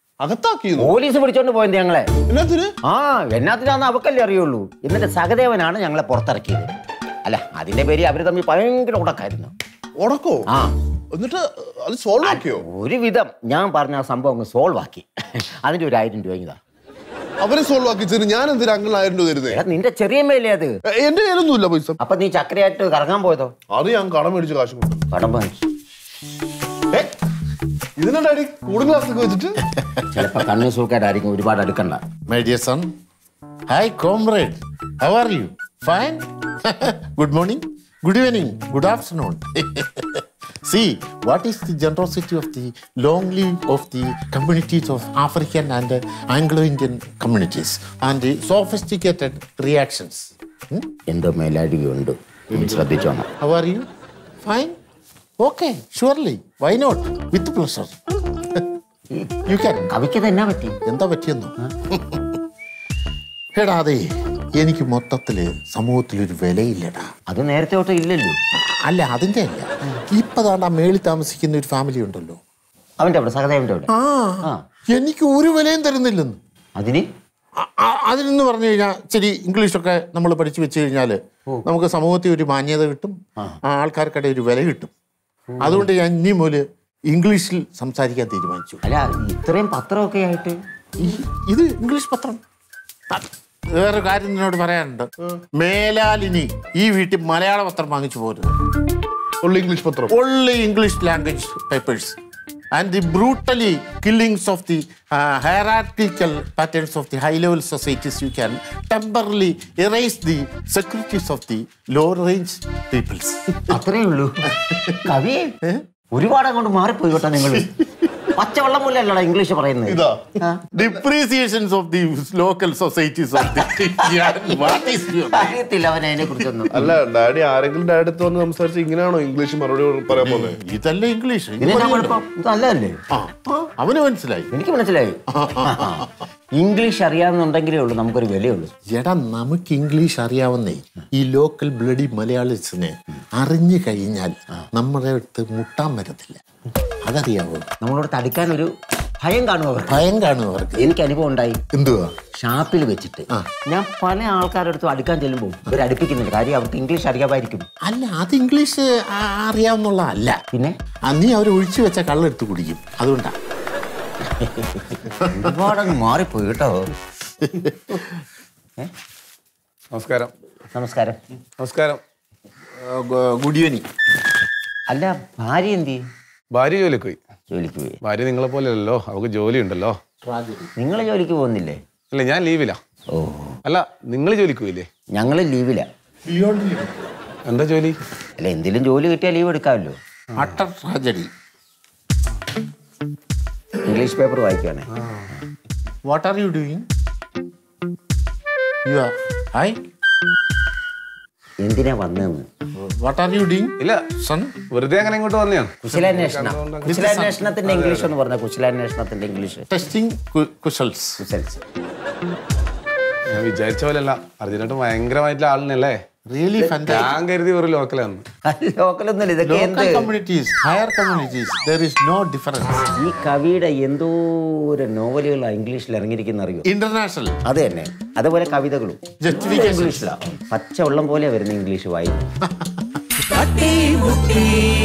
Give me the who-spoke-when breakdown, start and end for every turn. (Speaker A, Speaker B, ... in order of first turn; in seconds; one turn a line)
Speaker A: 0.2-1.0
Speaker B: 0.8-2.1
Speaker A: 2.3-2.7
Speaker B: 2.9-6.7
Speaker B: 7.2-9.5
Speaker A: 10.0-10.5
Speaker B: 10.5-10.7
Speaker A: 11.1-12.7
Speaker B: 12.2-16.6
Speaker A: 17.4-19.6
Speaker B: 19.5-20.7
Speaker A: 20.9-22.0
Speaker B: 22.0-23.5
Speaker A: 23.7-25.1
Speaker B: 25.1-25.6
Speaker A: 28.0-29.6
Speaker C: 29.8-30.4
Speaker B: 30.1-32.0
Speaker C: 32.3-32.9
Speaker C: 33.7-50.9
Speaker B: 51.1-53.3
Speaker C: 53.4-53.9
Speaker C: 54.4-54.7
Speaker C: 55.4-58.7
Speaker B: 59.1-60.8
Speaker C: 59.5-59.9
Speaker C: 60.8-62.4
Speaker C: 63.5-67.1
Speaker B: 67.3-68.4
Speaker C: 68.6-72.4
Speaker B: 73.0-73.9
Speaker C: 73.9-76.4
Speaker B: 76.8-77.1
Speaker C: 77.6-84.9
Speaker B: 85.5-85.9
Speaker C: 85.6-88.8
Speaker B: 88.8-90.6
Speaker C: 91.0-92.4
Speaker C: 93.1-98.5
Speaker A: 99.4-100.1
Speaker C: 100.1-102.2
Speaker C: 102.7-113.8
Speaker B: 113.5-114.4
Speaker C: 114.5-115.1
Speaker B: 115.0-115.5
Speaker B: 116.1-117.7
Speaker C: 117.3-118.3
Speaker B: 118.3-120.7
Speaker A: 119.9-120.2
Speaker C: 120.7-125.6
Speaker B: 123.6-127.0
Speaker C: 126.3-126.7
Speaker A: 126.7-130.6
Speaker C: 130.1-132.2
Speaker B: 131.6-133.0
Speaker C: 133.1-134.5
Speaker B: 134.5-138.7
Speaker C: 135.3-136.1
Speaker C: 138.9-146.4
Speaker C: 147.0-147.7
Speaker B: 147.8-148.7
Speaker B: 149.2-150.1
Speaker C: 149.9-150.9
Speaker B: 150.8-151.6
Speaker C: 151.7-152.1
Speaker B: 152.3-157.7
Speaker C: 157.8-160.4
Speaker C: 161.1-163.3
Speaker B: 164.2-166.9
Speaker C: 165.0-165.7
Speaker C: 167.4-168.0
Speaker D: 169.9-170.3
Speaker B: 170.7-171.2
Speaker D: 171.6-172.0
Speaker C: 172.8-173.8
Speaker B: 174.9-176.0
Speaker D: 176.5-177.2
Speaker B: 177.5-178.0
Speaker D: 178.0-180.0
Speaker C: 180.2-180.7
Speaker B: 180.8-181.8
Speaker D: 182.1-182.8
Speaker B: 183.1-183.6
Speaker D: 183.6-184.9
Speaker B: 185.1-185.8
Speaker C: 186.2-187.1
Speaker D: 187.4-188.0
Speaker B: 188.4-190.0
Speaker C: 190.3-191.3
Speaker B: 193.8-194.9
Speaker C: 196.0-196.8
Speaker C: 198.8-199.8
Speaker B: 201.6-202.4
Speaker C: 202.7-204.6
Speaker D: 204.7-207.0
Speaker B: 205.8-209.6
Speaker C: 206.8-207.6
Speaker D: 207.6-208.1
Speaker C: 209.7-211.2
Speaker B: 211.2-211.6
Speaker D: 213.3-216.0
Speaker C: 216.3-217.2
Speaker D: 216.8-218.2
Speaker B: 218.4-220.1
Speaker C: 219.4-223.0
Speaker B: 223.0-226.7
Speaker C: 226.6-227.4
Speaker B: 227.4-232.2
Speaker C: 229.2-230.1
Speaker C: 232.4-232.8